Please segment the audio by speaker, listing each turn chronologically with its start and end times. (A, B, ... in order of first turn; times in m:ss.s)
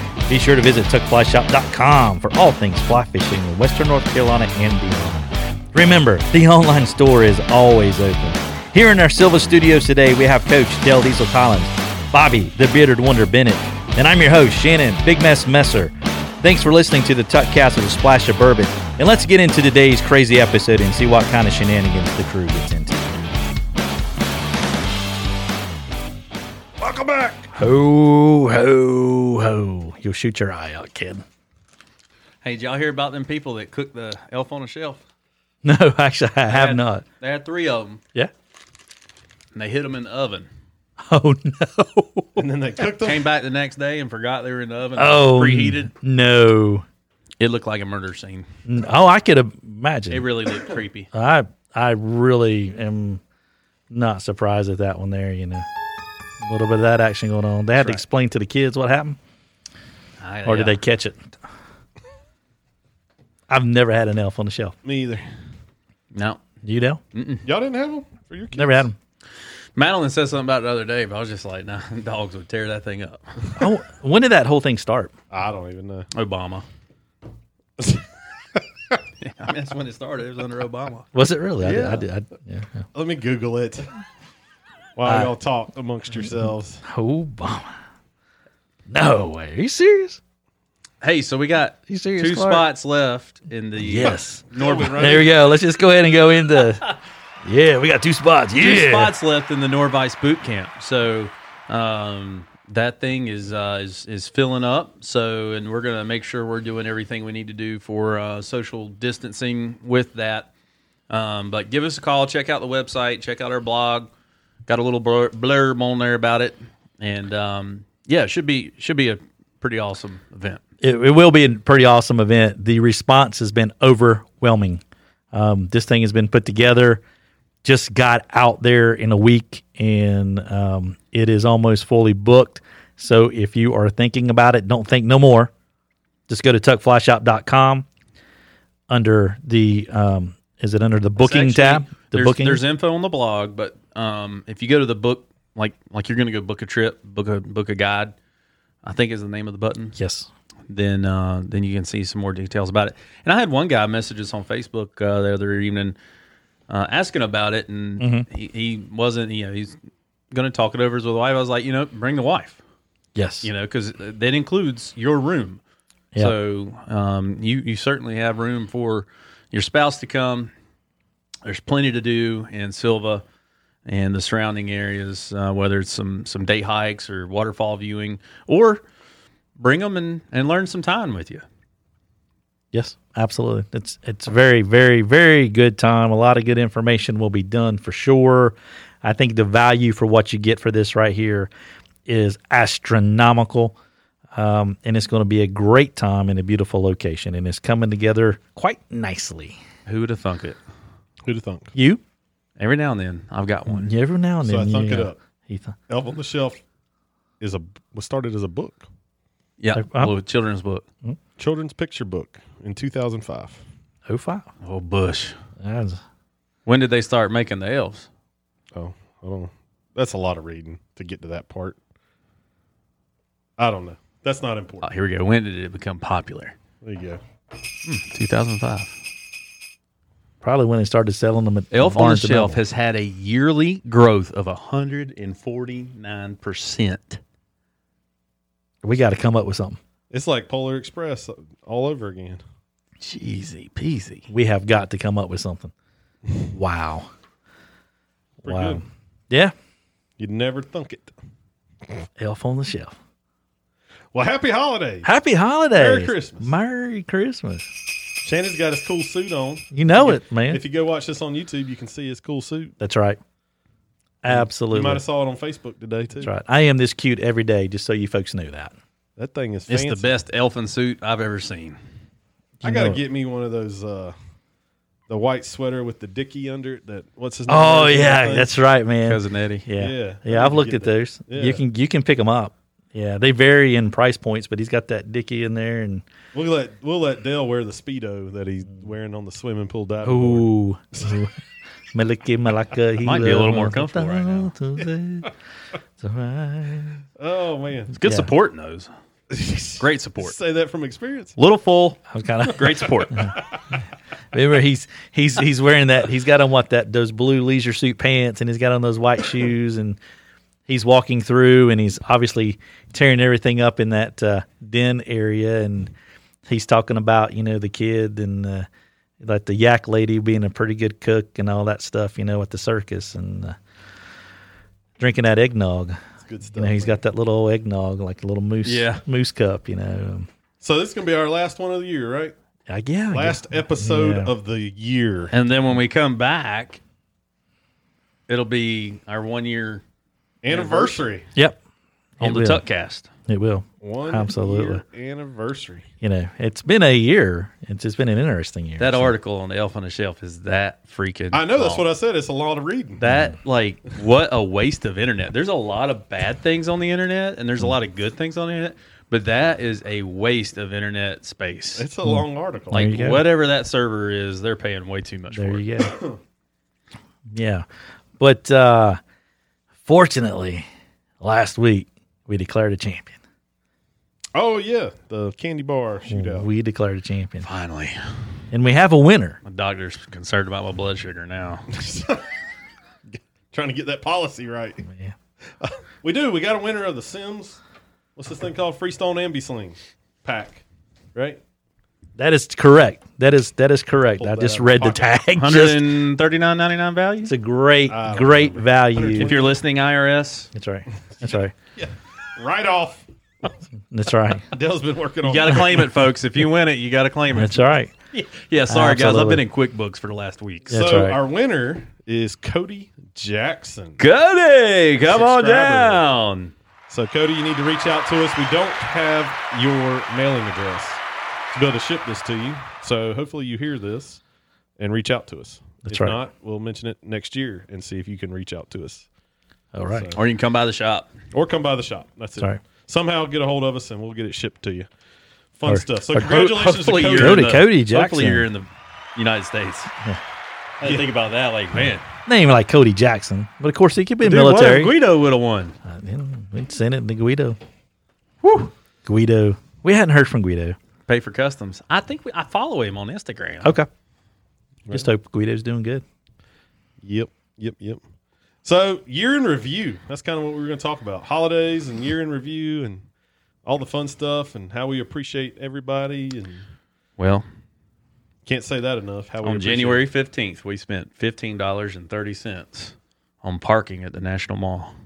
0:00.3-0:23.3 A
0:26.8-0:27.5 B
0:27.5-0:31.2 A
0:32.4-0:35.0 C
0:35.6-0:37.0 A
0:36.5-0:38.0 C
0:39.5-0:40.5 C
0:41.1-0:42.4 A
0:42.4-0:43.3 B
0:43.0-0:45.9 C
0:45.0-0:46.8 A
0:47.4-0:48.4 C
0:48.7-0:50.3 A
0:50.1-0:51.1 C
0:51.1-0:53.2 A
0:53.9-0:55.6 A
0:56.4-0:59.2 A
1:00.2-1:00.8 C
1:00.4-1:01.2 A
1:03.5-1:04.7 A
1:04.8-1:05.2 B
1:06.1-1:06.4 C
1:06.6-1:07.0 A
1:07.1-1:07.4 C
1:07.4-1:08.9 B
1:08.5-1:09.0 A
1:09.8-1:13.2 C
1:13.6-1:15.1 A
1:15.3-1:16.1 B
1:16.1-1:16.6 C
1:17.8-1:19.0 B
1:19.2-1:21.1 C
1:21.1-1:22.8 A
1:21.6-1:22.0 B
1:21.6-1:22.0 C
1:22.9-1:23.9 B
1:25.0-1:26.8 B
1:25.0-1:25.3 A
1:26.8-1:27.7 A
1:28.9-1:30.2 A
1:31.0-1:35.0 C
1:31.9-1:32.6 A
1:33.8-1:36.9 A
1:34.5-1:35.3 B
1:37.4-1:39.1 A
1:38.6-1:50.5 C
1:51.1-1:54.1 C
1:54.7-2:00.6 C
2:00.8-2:04.8 A
2:05.3-2:07.0 A
2:07.6-2:15.5 A
2:16.3-2:17.8 A
2:18.9-2:22.6 A
2:21.2-2:28.1 C
2:28.8-2:30.0 C
2:30.0-2:30.3 A
2:30.7-2:36.0 C
2:36.7-2:39.8 C
2:38.0-2:38.2 A
2:40.3-2:42.6 C
2:43.1-2:43.5 A
2:43.4-2:45.6 C
2:46.2-2:50.5 C
2:51.4-2:53.2 C
2:53.8-2:58.8 C
2:59.6-3:01.4 C
3:02.7-3:11.5 A
3:12.0-3:13.7 A
3:14.3-3:19.6 A
3:19.8-3:20.6 C
3:21.2-3:21.7 B
3:21.7-3:22.0 A
3:22.6-3:23.9 C
3:23.7-3:25.8 A
3:24.4-3:25.2 B
3:25.9-3:26.6 B
3:27.4-3:28.8 B
3:29.6-3:30.8 C
3:29.7-3:30.1 A
3:31.4-3:33.6 B
3:34.1-3:34.5 A
3:34.6-3:35.3 C
3:35.6-3:36.0 A
3:36.6-3:38.1 C
3:38.7-3:41.8 B
3:43.6-3:44.9 B
3:44.8-3:46.5 C
3:46.8-3:47.2 B
3:47.8-3:49.0 C
3:50.4-3:52.6 A
3:51.7-3:57.2 C
3:58.8-3:59.8 A
4:00.1-4:02.4 B
4:03.0-4:04.3 C
4:04.3-4:05.7 A
4:06.5-4:07.1 A
4:08.4-4:08.8 B
4:08.4-4:09.5 A
4:10.2-4:11.1 B
4:12.2-4:12.9 A
4:14.1-4:15.1 B
4:15.0-4:17.7 A
4:15.7-4:16.5 B
4:18.2-4:22.7 B
4:19.7-4:20.6 A
4:22.8-4:23.2 A
4:24.2-4:25.0 A
4:24.3-4:26.3 B
4:26.2-4:28.7 A
4:29.2-4:30.1 B
4:29.7-4:31.8 C
4:32.6-4:33.0 A
4:32.6-4:34.1 B
4:35.1-4:38.5 B
4:37.5-4:46.0 A
4:39.0-4:39.6 C
4:39.8-4:41.6 B
4:46.3-4:50.5 B
4:50.0-4:51.3 A
4:51.9-4:55.3 A
4:53.0-4:54.5 C
4:56.0-4:57.0 A
4:57.2-4:57.9 B
4:57.9-4:58.9 C
4:59.3-5:01.3 B
4:59.8-5:00.4 C
5:01.4-5:03.3 C
5:02.1-5:03.4 A
5:02.6-5:02.9 B
5:04.3-5:10.0 A
5:10.7-5:15.9 A
5:16.4-5:18.7 A
5:19.2-5:23.6 A
5:25.0-5:26.0 A
5:26.2-5:27.0 B
5:26.5-5:30.3 A
5:28.6-5:29.0 C
5:30.6-5:32.3 B
5:32.7-5:34.3 A
5:33.1-5:35.3 B
5:35.3-5:36.8 C
5:38.3-5:39.8 C
5:40.4-5:41.3 B
5:40.5-5:41.0 C
5:42.2-5:42.6 A
5:42.2-5:43.1 C
5:43.3-5:44.8 A
5:43.8-5:45.8 B
5:46.0-5:49.1 A
5:48.8-5:51.9 C
5:51.3-5:53.0 B
5:53.0-6:01.9 C
6:01.8-6:02.8 B
6:02.0-6:03.3 A
6:02.7-6:05.6 C
6:05.3-6:06.0 A
6:05.9-6:06.2 B
6:07.3-6:07.6 A
6:08.2-6:09.0 A
6:09.8-6:10.6 A
6:11.2-6:13.2 A
6:14.3-6:16.5 B
6:16.1-6:17.5 A
6:17.4-6:18.0 C
6:18.5-6:19.4 A
6:19.4-6:21.7 C
6:21.7-6:22.2 B
6:23.5-6:24.8 B
6:24.8-6:25.2 A
6:25.6-6:27.6 B
6:28.2-6:30.6 B
6:31.1-6:31.4 B
6:32.2-6:35.8 A
6:34.2-6:35.1 B
6:35.4-6:37.3 C
6:37.2-6:39.3 A
6:37.9-6:39.6 B
6:39.2-6:40.5 C
6:40.5-6:41.5 A
6:41.1-6:43.5 B
6:43.9-6:44.5 A
6:44.5-6:46.0 B
6:45.2-6:50.8 C
6:47.3-6:47.9 A
6:48.7-6:49.4 A
6:50.7-6:51.2 A
6:50.7-6:54.0 B
6:54.0-6:56.5 C
6:55.1-6:56.0 B
6:56.9-7:01.0 B
7:01.5-7:04.2 B
7:04.8-7:09.1 B
7:05.8-7:06.2 A
7:09.7-7:10.1 A
7:09.9-7:10.2 B
7:10.1-7:11.1 C
7:11.3-7:14.9 B
7:15.6-7:17.5 B
7:15.7-7:16.6 A
7:16.2-7:19.9 C
7:17.2-7:18.5 A
7:20.8-7:22.0 C
7:20.8-7:21.1 B
7:22.2-7:25.0 A
7:24.2-7:25.8 C
7:25.8-7:27.6 A
7:28.4-7:28.7 C
7:29.0-7:30.8 A
7:31.1-7:33.8 C
7:33.6-7:33.9 A
7:34.9-7:36.0 A
7:37.0-7:38.0 B
7:38.6-7:43.0 B
7:43.6-7:46.6 B
7:47.2-7:47.4 C
7:48.4-7:50.1 B
7:49.4-7:54.9 C